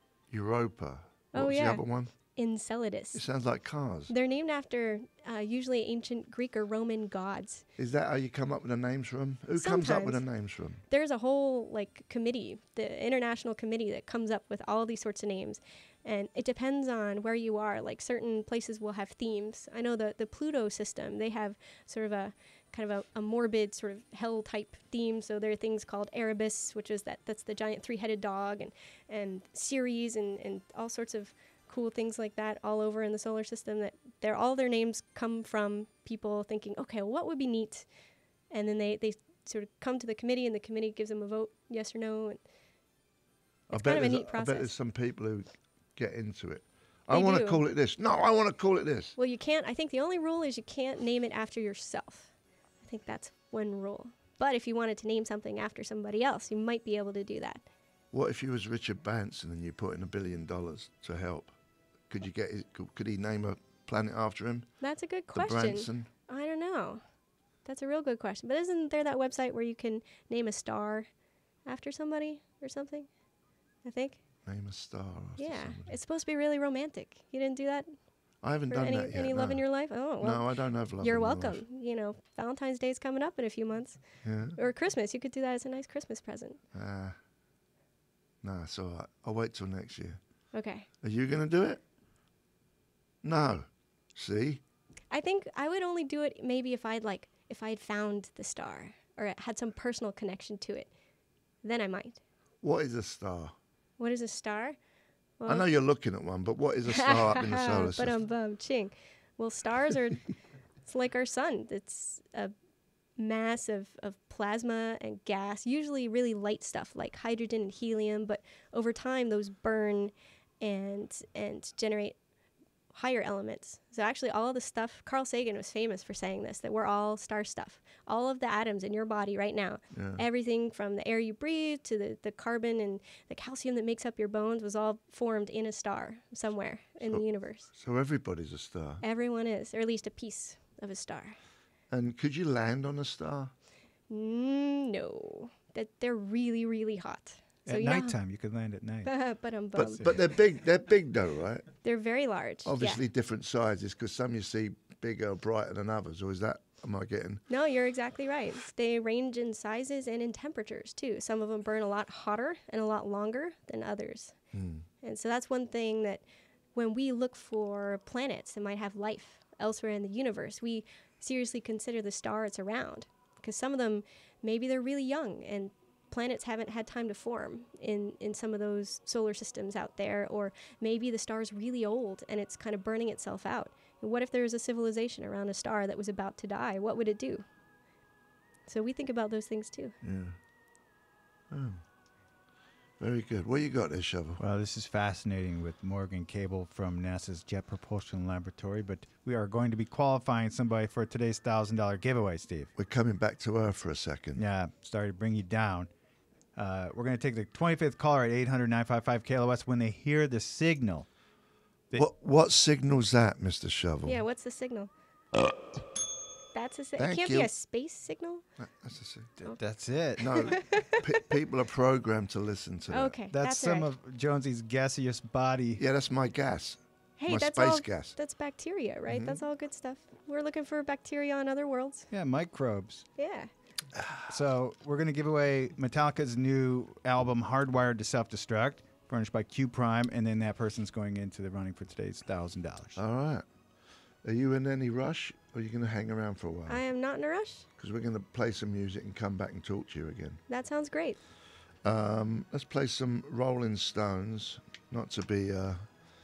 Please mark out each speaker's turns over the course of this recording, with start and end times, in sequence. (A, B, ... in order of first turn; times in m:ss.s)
0:00.3-0:02.1 A
0:01.3-0:03.2 B
0:03.1-0:04.1 A
0:04.1-0:07.6 B
0:07.8-0:10.8 A
0:09.5-0:10.3 B
0:10.9-0:37.9 B
0:38.5-0:42.4 B
0:43.7-0:44.7 B
0:43.7-0:49.2 A
0:47.1-0:47.6 B
0:49.2-0:57.6 B
0:58.1-1:01.6 A
1:02.1-1:04.7 A
1:04.8-1:07.0 B
1:05.3-1:06.1 A
1:07.6-1:11.1 B
1:11.7-1:13.1 B
1:13.8-1:14.2 B
1:14.4-1:16.0 A
1:15.4-1:17.9 B
1:18.4-1:21.6 A
1:18.7-1:24.0 B
1:24.2-1:24.6 A
1:24.6-1:26.6 B
1:26.7-1:27.2 A
1:28.4-1:30.2 A
1:30.5-1:30.9 B
1:31.0-1:31.8 A
1:33.2-1:34.6 A
1:35.1-1:40.9 B
1:41.6-1:42.2 B
1:42.6-1:43.6 A
1:44.0-1:44.8 B
1:45.4-1:45.7 B
1:45.5-1:48.2 A
1:46.8-1:50.3 B
1:50.8-1:52.5 B
1:53.2-2:02.2 B
2:02.9-2:17.7 B
2:09.9-2:10.2 A
2:17.0-2:19.0 A
2:19.0-2:21.4 B
2:21.9-2:23.5 A
2:24.1-2:28.2 B
2:27.6-2:29.1 C
2:29.0-2:30.1 B
2:29.8-2:31.7 A
2:31.8-2:33.0 B
2:32.6-2:37.4 A
2:37.5-2:44.4 B
2:44.5-2:44.9 A
2:45.0-3:07.4 B
3:08.7-3:10.0 B
3:10.0-3:10.4 A
3:11.5-3:11.8 A
3:13.0-3:14.4 A
3:14.4-3:22.7 C
3:22.8-3:24.4 A
3:24.4-3:25.9 C
3:26.6-3:31.1 C
3:31.9-3:34.2 A
3:34.0-3:34.9 B
3:36.5-3:38.4 B
3:37.0-3:37.5 A
3:38.6-3:39.4 A
3:39.4-3:40.4 C
3:40.2-3:41.0 B
3:40.2-3:43.2 A
3:42.9-3:43.9 B
3:43.3-3:45.8 C
3:45.8-3:48.2 A
3:47.2-3:52.1 B
3:49.1-3:49.4 A
3:52.1-3:53.1 C
3:53.2-3:53.5 B
3:54.0-4:03.0 C
4:03.0-4:03.5 A
4:04.2-4:06.8 A
4:06.7-4:07.7 B
4:07.8-4:10.4 A
4:10.5-4:11.2 B
4:11.8-4:15.9 A